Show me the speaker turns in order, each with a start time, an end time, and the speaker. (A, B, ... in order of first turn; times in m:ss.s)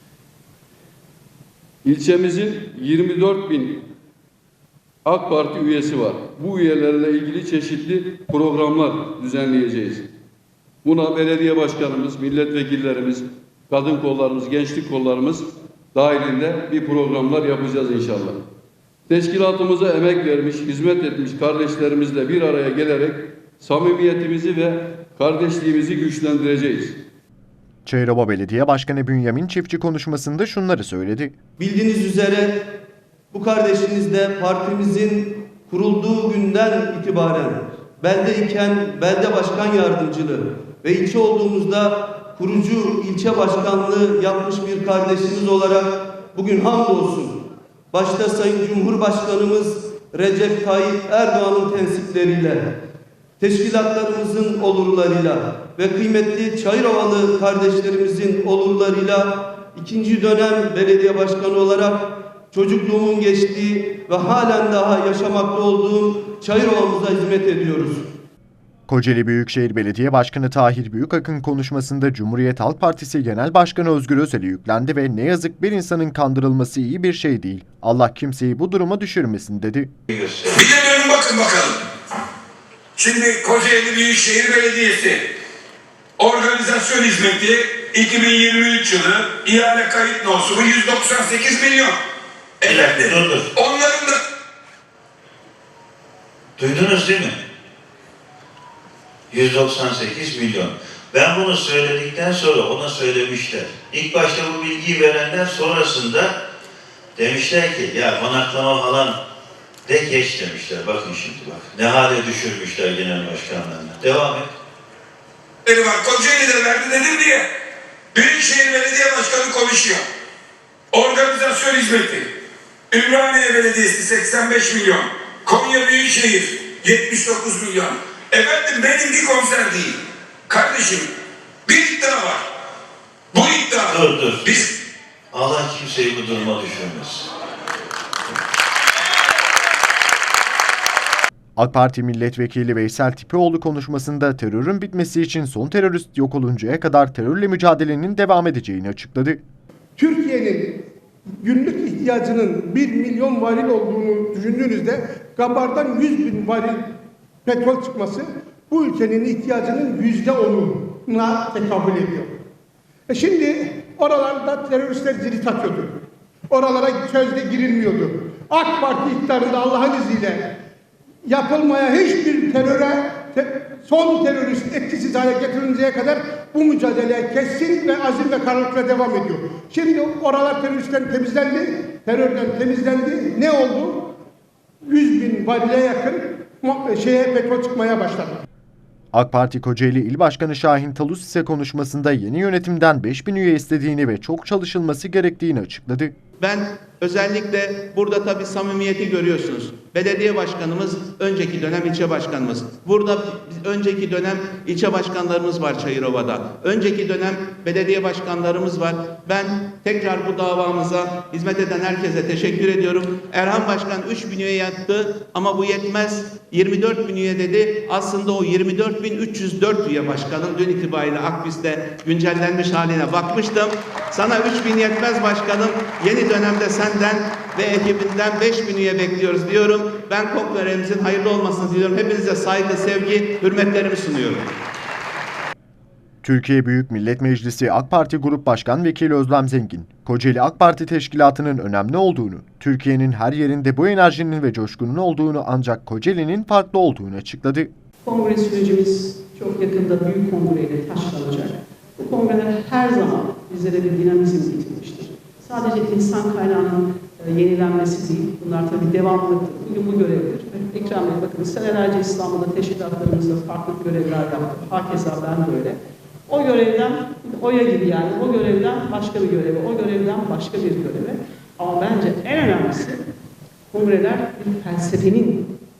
0:01.8-0:03.8 A
0:05.0-0:10.1 A
0:10.8-0:18.4 A
0:19.1-0:27.0 A
0:27.8-0:31.3 B
0:31.6-0:32.7 C
0:33.3-0:52.8 C
0:53.4-1:08.0 C
1:08.9-1:19.9 B
1:20.1-1:20.7 D
1:20.5-1:21.8 E
1:22.9-1:25.2 E
1:26.2-1:32.0 E
1:32.6-1:33.5 D
1:32.7-1:34.2 E
1:36.6-1:37.3 D
1:39.3-1:46.3 D
1:47.2-1:49.2 D
1:49.8-1:54.5 D
1:55.6-1:57.5 E
1:58.1-2:00.0 E
2:00.9-2:02.3 E
2:02.9-2:11.1 E
2:11.6-2:12.4 E
2:13.3-2:14.7 E
2:13.8-2:14.6 D
2:15.3-2:17.2 D
2:21.6-2:29.4 B
2:30.0-2:30.8 F
2:31.4-2:36.8 F
2:37.4-2:42.3 F
2:43.1-2:46.0 F
2:46.5-2:50.6 F
2:51.2-3:04.1 F
3:04.8-3:08.4 F
3:09.1-3:16.1 B
3:16.4-3:54.5 G
3:56.2-4:07.7 B
4:08.0-4:33.0 H
4:33.7-4:35.6 H